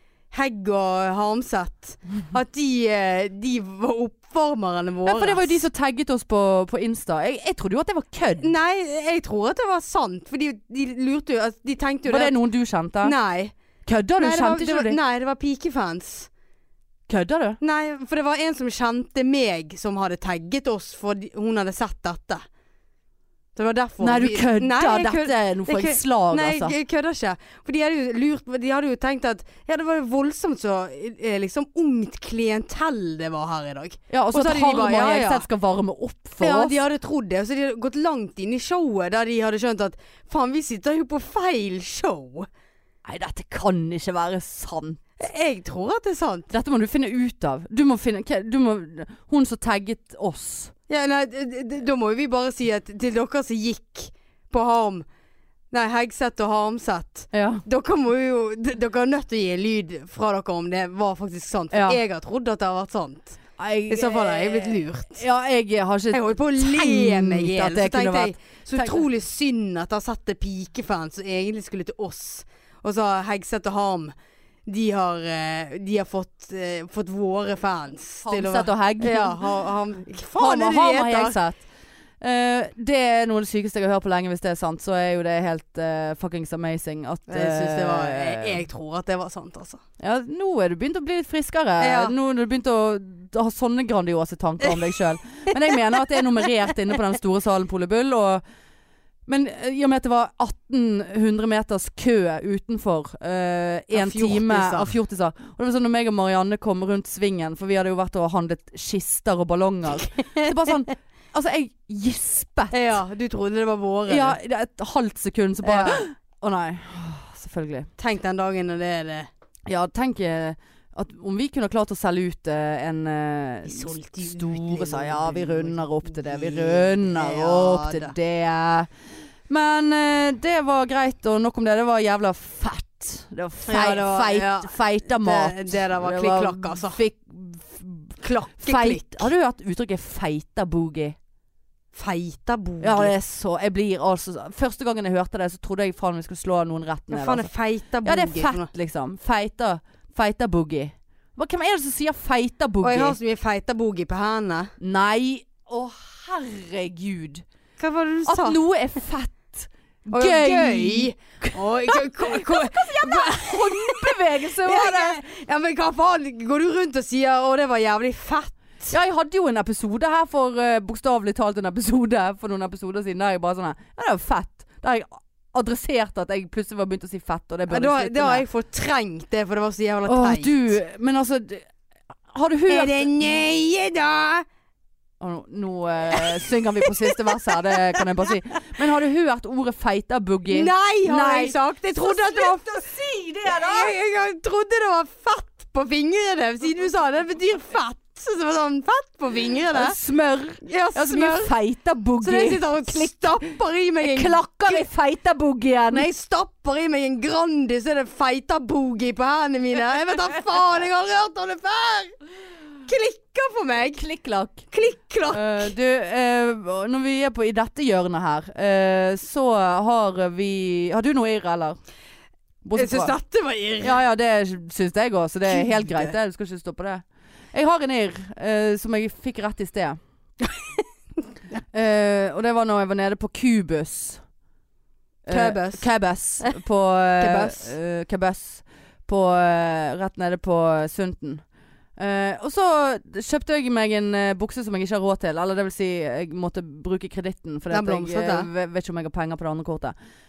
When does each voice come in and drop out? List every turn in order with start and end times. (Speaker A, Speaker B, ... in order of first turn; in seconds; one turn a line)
Speaker A: 0.3-5.6
Speaker B: 5.1-8.6
Speaker A: 8.4-12.4
Speaker B: 12.1-13.2
Speaker A: 13.0-13.5
Speaker B: 13.9-15.0
Speaker A: 14.2-16.3
Speaker B: 17.1-17.6
Speaker A: 17.6-22.4
Speaker A: 23.6-35.4
Speaker B: 24.0-26.8
Speaker B: 34.1-36.8
Speaker A: 36.4-42.5
Speaker B: 43.0-45.0
Speaker A: 45.2-46.5
Speaker B: 46.5-50.7
Speaker A: 50.9-55.0
Speaker A: 55.7-65.2
Speaker B: 57.3-57.6
Speaker B: 61.7-62.0
Speaker B: 63.6-69.0
Speaker A: 66.1-74.1
Speaker A: 74.7-81.4
Speaker B: 78.2-79.4
Speaker B: 80.4-81.6
Speaker B: 82.2-88.6
Speaker A: 87.3-89.8
Speaker B: 90.0-98.4
Speaker A: 91.8-92.1
Speaker B: 99.3-112.9
Speaker A: 103.9-105.0
Speaker A: 110.1-110.7
Speaker A: 112.7-114.4
Speaker B: 114.1-117.9
Speaker A: 115.6-116.0
Speaker A: 118.0-119.3
Speaker B: 119.7-128.9
Speaker A: 123.6-128.1
Speaker B: 129.5-141.2
Speaker A: 133.7-137.0
Speaker A: 138.2-139.3
Speaker A: 141.9-143.2
Speaker B: 142.8-147.5
Speaker A: 147.1-148.7
Speaker B: 148.1-153.2
Speaker A: 152.8-154.7
Speaker B: 154.8-157.4
Speaker A: 157.8-158.6
Speaker B: 158.3-165.2
Speaker A: 160.1-168.9
Speaker B: 168.9-178.4
Speaker A: 177.7-180.8
Speaker B: 180.1-181.7
Speaker B: 182.3-183.1
Speaker A: 182.7-184.4
Speaker B: 185.2-193.9
Speaker A: 186.8-187.2
Speaker A: 190.5-192.9
Speaker A: 193.4-200.0
Speaker B: 199.7-203.5
Speaker A: 200.6-201.5
Speaker A: 202.2-204.9
Speaker B: 204.0-206.1
Speaker A: 205.9-212.2
Speaker A: 212.9-214.0
Speaker B: 214.0-214.7
Speaker A: 214.7-215.7
Speaker B: 215.3-221.8
Speaker B: 222.6-223.2
Speaker A: 222.8-224.0
Speaker B: 223.8-230.0
Speaker A: 225.5-226.1
Speaker A: 230.4-230.8
Speaker B: 231.7-234.2
Speaker B: 235.3-241.4
Speaker A: 235.3-235.8
Speaker A: 237.2-237.7
Speaker B: 242.0-249.9
Speaker A: 247.7-248.5